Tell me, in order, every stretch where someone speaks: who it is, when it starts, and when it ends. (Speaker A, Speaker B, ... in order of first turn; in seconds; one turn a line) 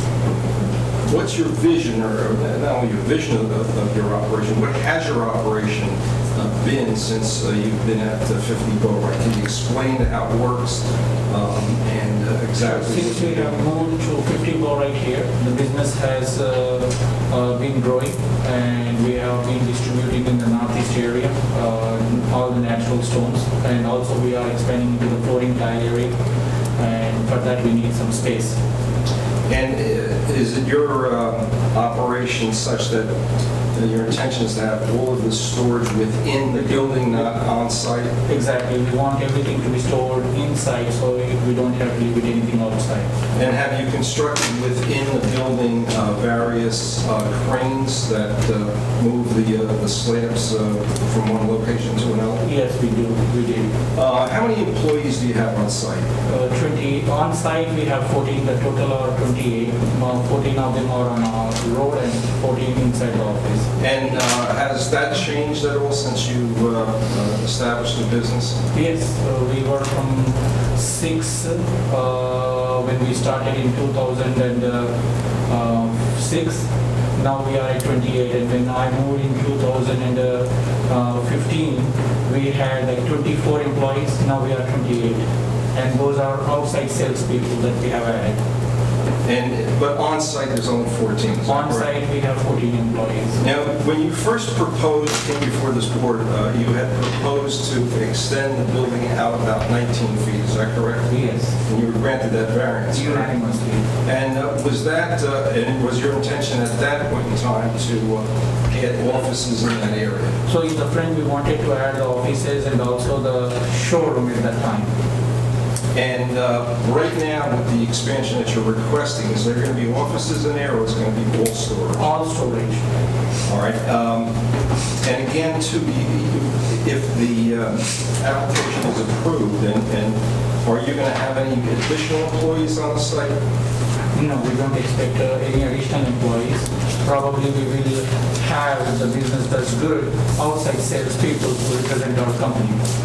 Speaker A: 1.1-13.6
Speaker B: 12.6-26.2
Speaker B: 26.8-28.6
Speaker A: 29.5-33.1
Speaker A: 33.7-38.1
Speaker B: 36.5-37.3
Speaker B: 38.2-43.1
Speaker A: 43.3-52.4
Speaker B: 52.4-53.7
Speaker A: 53.9-56.0
Speaker B: 56.2-63.7
Speaker A: 63.8-68.5
Speaker B: 68.7-74.9
Speaker B: 75.5-88.4
Speaker A: 89.2-91.9
Speaker B: 91.4-93.4
Speaker A: 93.4-101.1
Speaker B: 101.1-101.5
Speaker A: 101.6-103.3
Speaker B: 102.9-103.8
Speaker A: 104.0-110.3
Speaker B: 110.5-114.9
Speaker A: 115.9-122.0
Speaker B: 122.0-122.8
Speaker A: 123.5-124.3
Speaker A: 125.0-133.3
Speaker B: 134.1-142.8